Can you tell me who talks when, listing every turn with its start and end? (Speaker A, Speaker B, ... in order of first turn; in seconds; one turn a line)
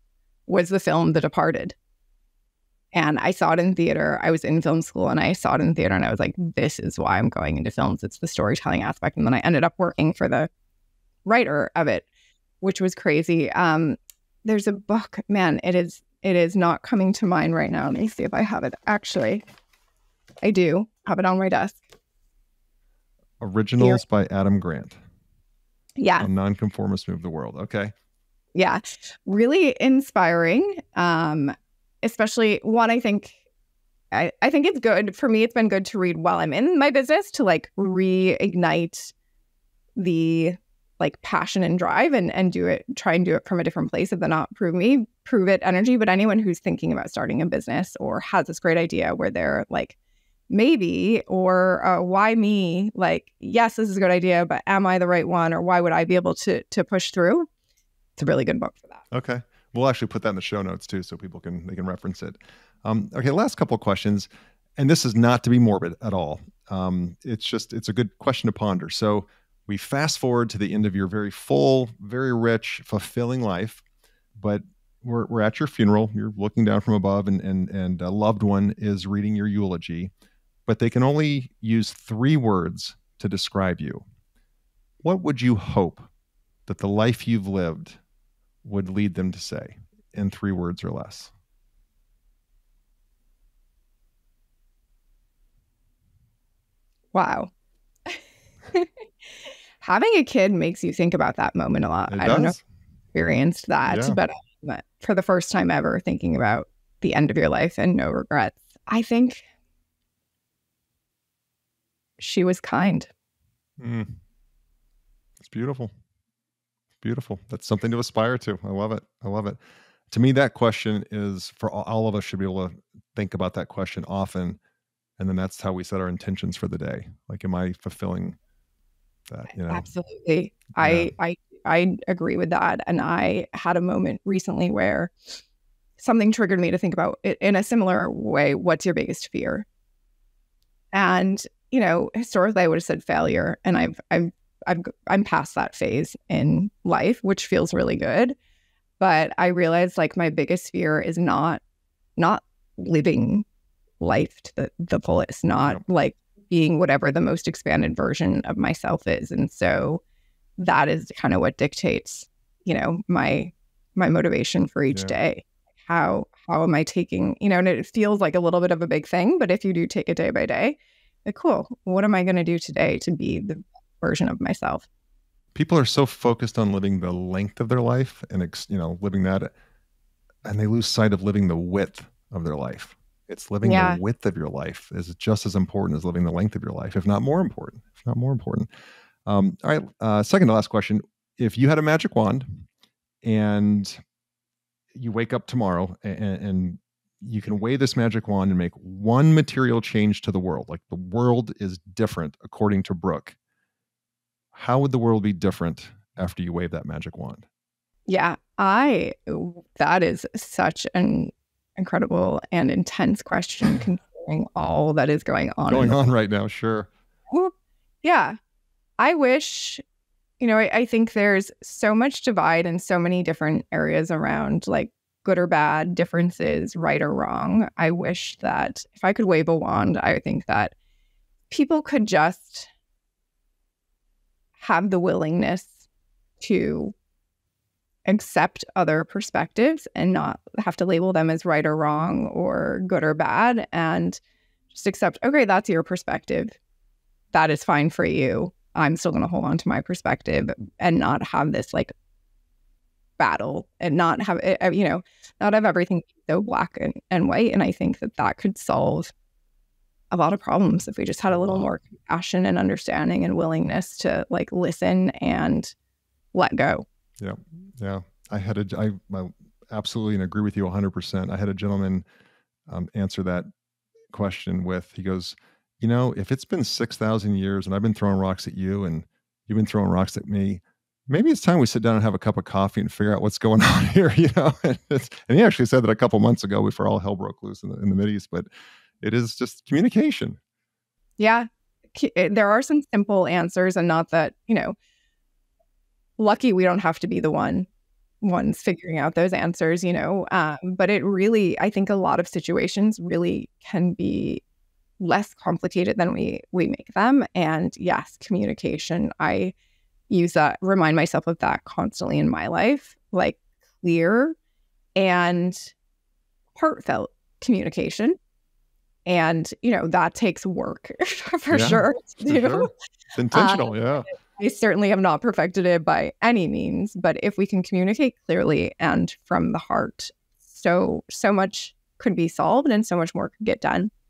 Speaker A: 0.5-1.8
Speaker A: 2.9-10.5
Speaker A: 11.2-12.1
Speaker A: 12.6-19.4
Speaker A: 20.4-21.8
Speaker B: 23.4-25.0
Speaker A: 26.0-26.3
Speaker B: 26.2-27.9
Speaker A: 28.6-33.4
Speaker A: 34.1-39.1
Speaker A: 40.0-50.0
Speaker A: 50.5-57.5
Speaker A: 58.2-59.0
Speaker B: 59.1-73.8
Speaker B: 74.4-80.1
Speaker B: 80.7-84.0
Speaker B: 85.0-86.1
Speaker B: 86.7-88.0
Speaker B: 88.6-91.3
Speaker A: 97.1-97.5
Speaker A: 99.4-102.6
Speaker B: 102.1-102.6
Speaker A: 103.1-109.4
Speaker B: 103.9-104.2
Speaker A: 112.2-113.1
Speaker B: 113.8-114.2
Speaker B: 115.4-115.9
Speaker B: 117.0-119.6
Speaker B: 120.1-124.6
Speaker B: 125.2-128.4
Speaker B: 129.3-129.9
Speaker A: 129.6-135.1
Speaker B: 130.8-131.1
Speaker A: 136.0-139.7
Speaker A: 140.9-148.4
Speaker A: 149.0-151.6
Speaker A: 152.2-153.5
Speaker A: 154.0-160.0
Speaker A: 160.6-174.9
Speaker B: 164.9-165.2
Speaker B: 175.6-179.5
Speaker B: 180.4-188.7
Speaker A: 183.6-184.0
Speaker B: 189.3-192.6
Speaker B: 193.2-194.0
Speaker B: 194.9-203.4
Speaker B: 204.5-207.5
Speaker A: 208.1-216.0
Speaker B: 215.7-216.9
Speaker A: 217.3-218.4
Speaker A: 219.0-219.8
Speaker A: 220.4-230.7
Speaker A: 231.5-232.7
Speaker A: 234.6-235.8
Speaker A: 236.4-236.9
Speaker A: 238.1-244.2
Speaker A: 244.7-246.6
Speaker A: 247.3-251.9
Speaker A: 253.2-259.1
Speaker A: 260.1-265.7
Speaker B: 261.3-261.7
Speaker A: 266.3-266.9
Speaker B: 267.2-272.1
Speaker B: 272.7-273.5
Speaker B: 274.1-288.5
Speaker B: 289.0-290.4
Speaker A: 291.2-294.8
Speaker A: 296.2-297.7
Speaker A: 298.2-304.4
Speaker A: 305.0-309.5
Speaker A: 310.1-314.4
Speaker A: 315.0-315.7
Speaker A: 316.6-318.2
Speaker A: 319.1-322.7
Speaker B: 321.5-324.1
Speaker A: 323.3-333.9